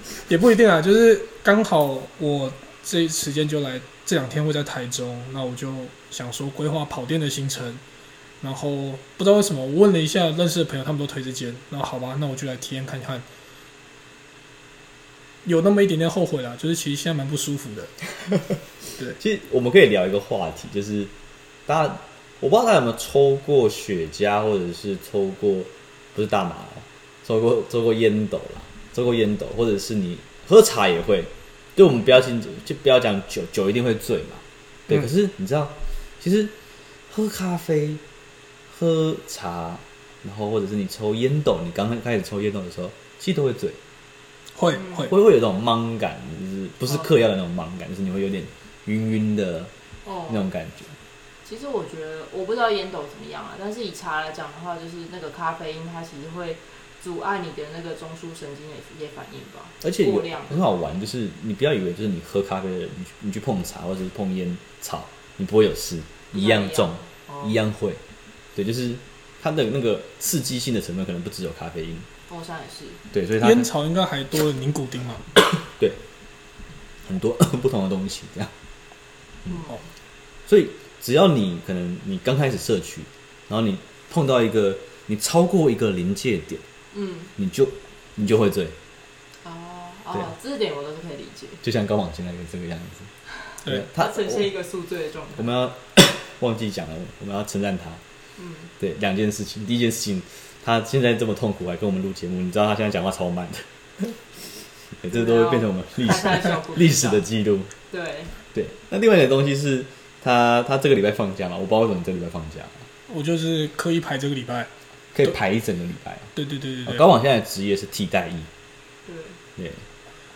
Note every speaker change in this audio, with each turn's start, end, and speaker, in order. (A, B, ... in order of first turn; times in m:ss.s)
0:00.3-0:07.8 A
0:08.4-0:13.2 A
0:15.4-0:17.9 A
0:19.2-0:21.1 B
0:21.7-0:36.5 B
0:37.1-0:38.0 B
0:38.7-0:43.8 B
0:44.5-0:45.1 A
0:44.7-0:45.1 C
0:45.0-0:49.7 B
0:46.8-0:47.2 C
0:50.0-0:50.5 C
0:50.3-0:51.0 B
0:51.4-1:00.6 C
0:59.8-1:08.0 B
1:06.3-1:07.6 C
1:08.5-1:12.1 B
1:12.3-1:13.0 C
1:13.1-1:13.7 B
1:13.4-1:15.2 A
1:15.7-1:16.0 B
1:17.0-1:18.5 B
1:19.5-1:19.9 C
1:20.5-1:26.6 B
1:26.9-1:27.3 C
1:27.4-1:28.8 B
1:29.4-1:31.6 C
1:31.6-1:33.1 B
1:33.4-1:35.5 C
1:33.6-1:34.5 B
1:35.4-1:38.0 B
1:38.4-1:38.7 C
1:38.8-1:44.2 B
1:44.9-1:47.7 B
1:45.1-1:47.2 C
1:47.9-1:48.4 C
1:48.5-1:52.8 B
1:53.1-1:54.7 A
1:55.1-1:58.5 B
1:56.3-1:57.0 A
1:59.0-1:59.4 C
1:59.6-1:59.8 B